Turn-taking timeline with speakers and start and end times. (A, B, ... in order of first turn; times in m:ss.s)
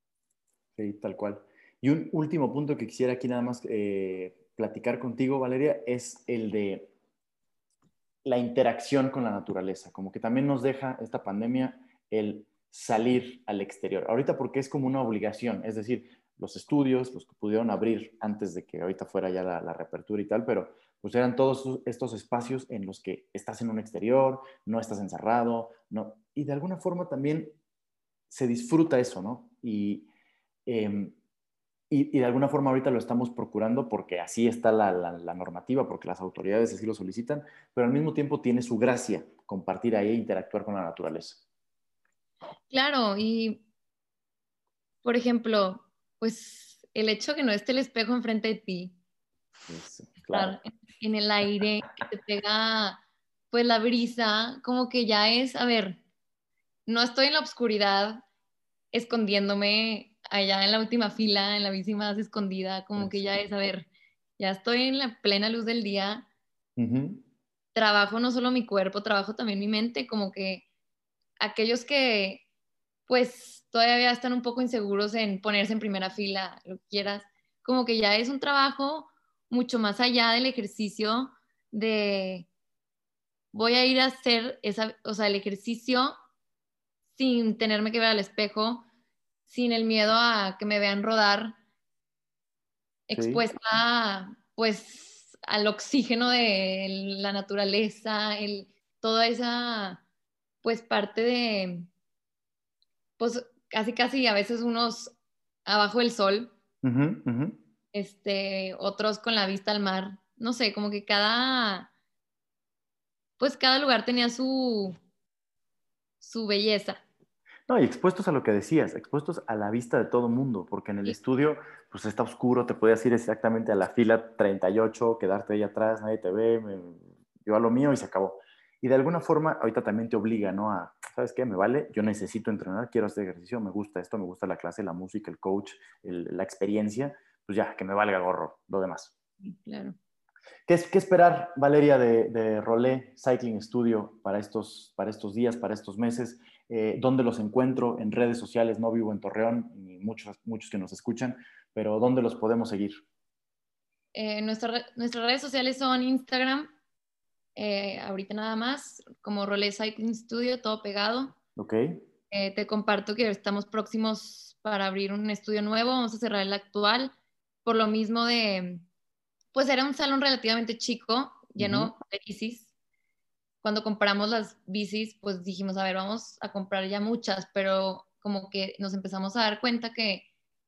0:00.8-0:06.9 A
0:08.2-0:27.6 A
0:28.3-0:30.1 A
0:30.6-0:31.1 A
0:31.9-0:41.4 A
0:42.7-0:43.6 B
0:45.0-0:48.9 B
0:49.7-0:50.6 A
0:50.3-0:53.0 B
0:53.5-0:56.0 B
0:56.8-0:58.2 B
0:58.9-1:06.3 B
1:03.0-1:03.4 A
1:06.8-1:07.2 A
1:07.7-1:10.6 B
1:11.4-1:12.4 B
1:13.1-1:22.5 B
1:23.5-1:26.1 B
1:27.1-1:28.8 B
1:29.4-1:31.6 B
1:33.1-1:40.0 B
1:33.1-1:33.4 A
1:40.6-1:41.9 B
1:43.2-1:45.1 B
1:45.6-1:46.5 B
1:46.8-1:47.6 A
1:47.9-1:51.9 B
1:53.4-1:55.0 B
1:56.2-1:57.0 B
1:57.7-2:19.1 A
2:19.4-2:20.0 B
2:20.7-2:33.0 A
2:34.1-2:36.7 B
2:37.5-2:41.4 B
2:41.6-2:42.0 A
2:42.3-2:48.8 B
2:49.5-2:52.7 B
2:51.6-2:51.9 A
2:53.6-3:00.2 B